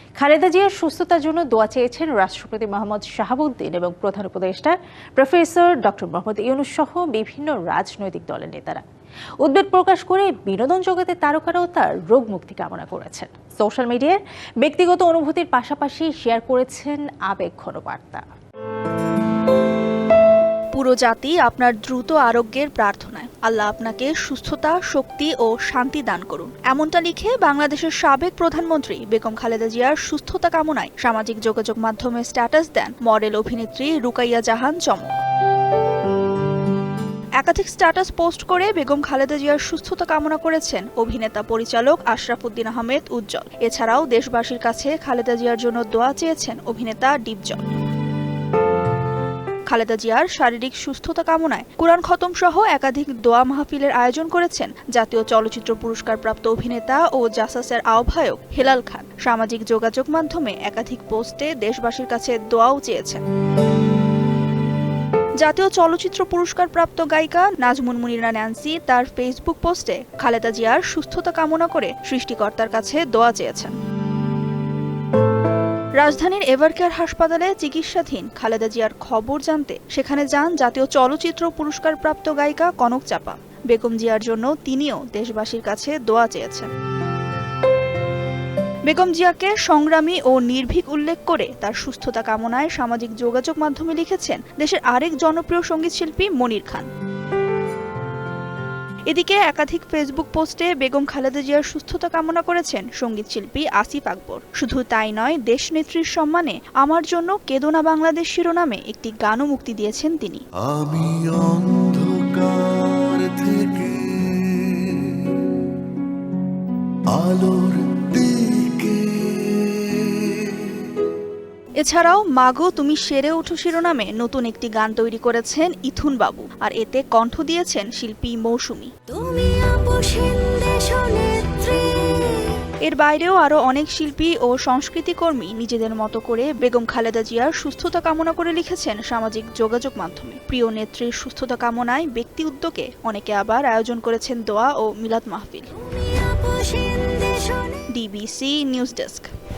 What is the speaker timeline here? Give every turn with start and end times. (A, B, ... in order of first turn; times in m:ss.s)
0:00.2-0:08.8 A
0:09.4-0:18.2 A
0:20.7-0:35.2 B
0:37.4-0:47.7 B
0:49.7-1:03.2 B
1:05.4-1:13.7 B
1:16.0-1:26.7 B
1:28.9-1:36.9 B
1:39.1-1:50.4 B
1:50.6-1:55.2 C
1:57.1-2:00.7 C
2:01.8-2:08.9 B
2:09.1-2:12.5 D
2:12.8-2:25.7 B
2:25.7-2:27.8 D
2:27.9-2:29.3 B